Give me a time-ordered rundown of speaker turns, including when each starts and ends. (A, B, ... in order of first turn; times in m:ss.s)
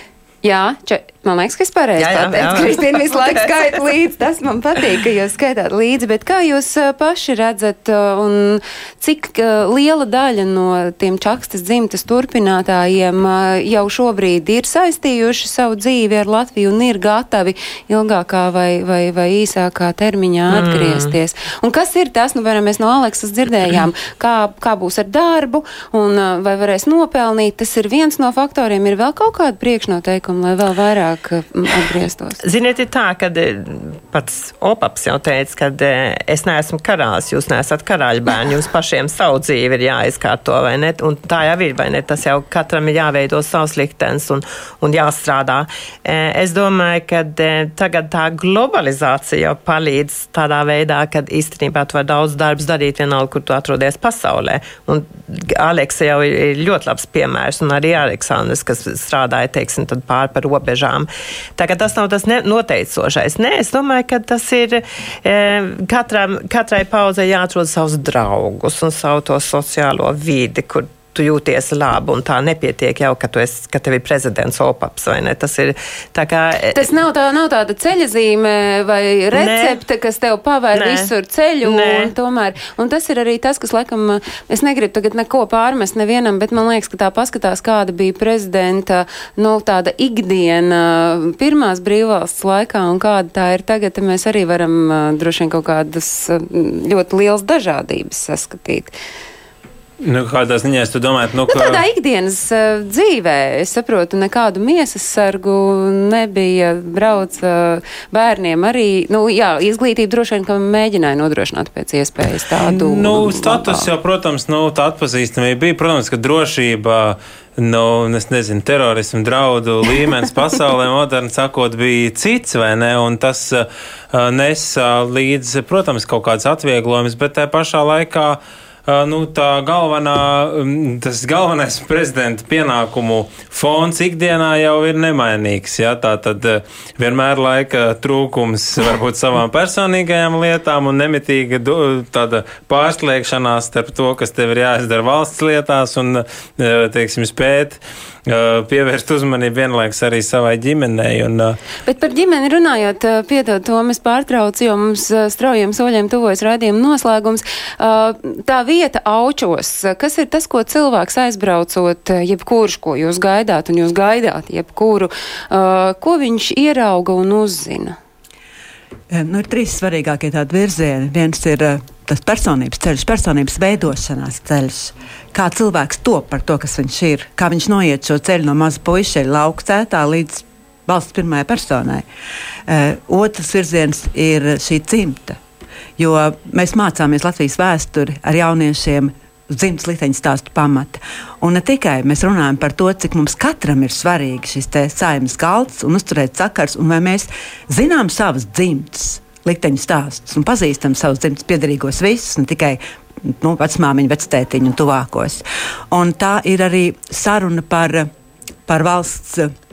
0:00.4-0:32.4 A
0:02.0-0:03.5 B
0:20.5-0:21.1 B
0:32.4-1:16.9 B
1:16.7-1:38.9 A
1:19.3-1:19.8 B
1:20.7-1:21.1 B
1:21.6-1:22.1 B
1:40.0-1:41.8 C
1:41.5-1:53.9 A
1:52.6-2:31.6 C
2:31.9-2:48.0 A
2:49.1-3:02.0 D
3:02.7-3:05.4 D
3:06.0-3:28.1 D
3:28.7-3:29.5 D